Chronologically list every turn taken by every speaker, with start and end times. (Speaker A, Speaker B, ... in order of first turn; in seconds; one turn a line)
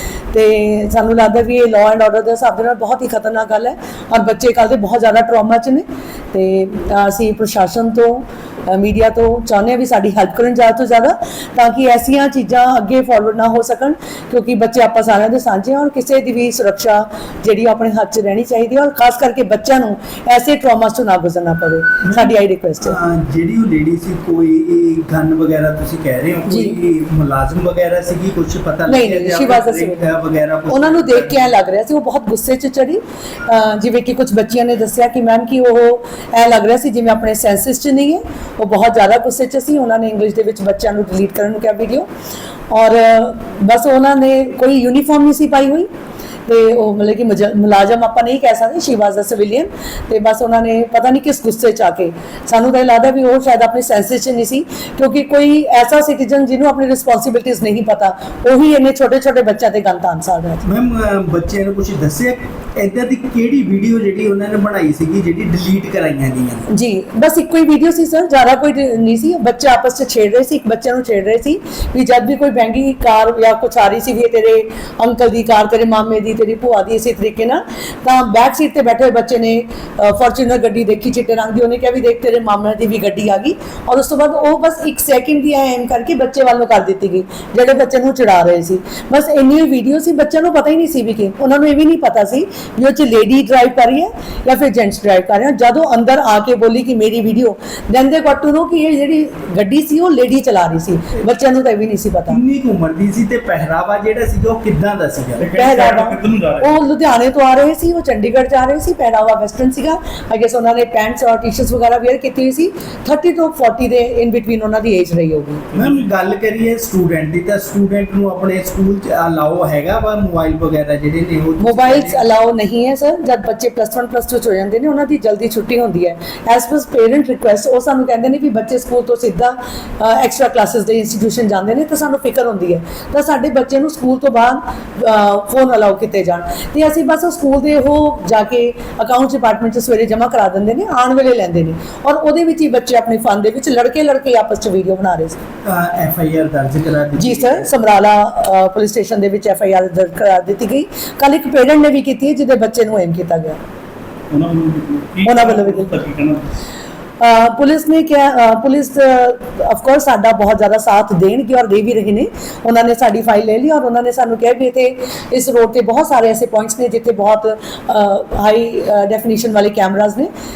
Speaker A: 0.3-23.0
Speaker B: 22.0-31.6
Speaker A: 26.5-26.8
Speaker A: 28.9-30.0
Speaker A: 30.7-42.1
Speaker A: 42.7-45.9
Speaker A: 46.5-60.6
Speaker B: 60.6-66.7
Speaker A: 66.7-102.4
Speaker B: 101.2-101.5
Speaker B: 102.3-105.5
Speaker C: 105.4-106.9
Speaker A: 105.5-115.7
Speaker C: 115.7-116.1
Speaker B: 115.8-122.3
Speaker A: 121.6-145.4
Speaker B: 145.7-147.7
Speaker A: 147.2-153.6
Speaker C: 154.3-156.5
Speaker A: 155.2-156.0
Speaker A: 157.2-170.3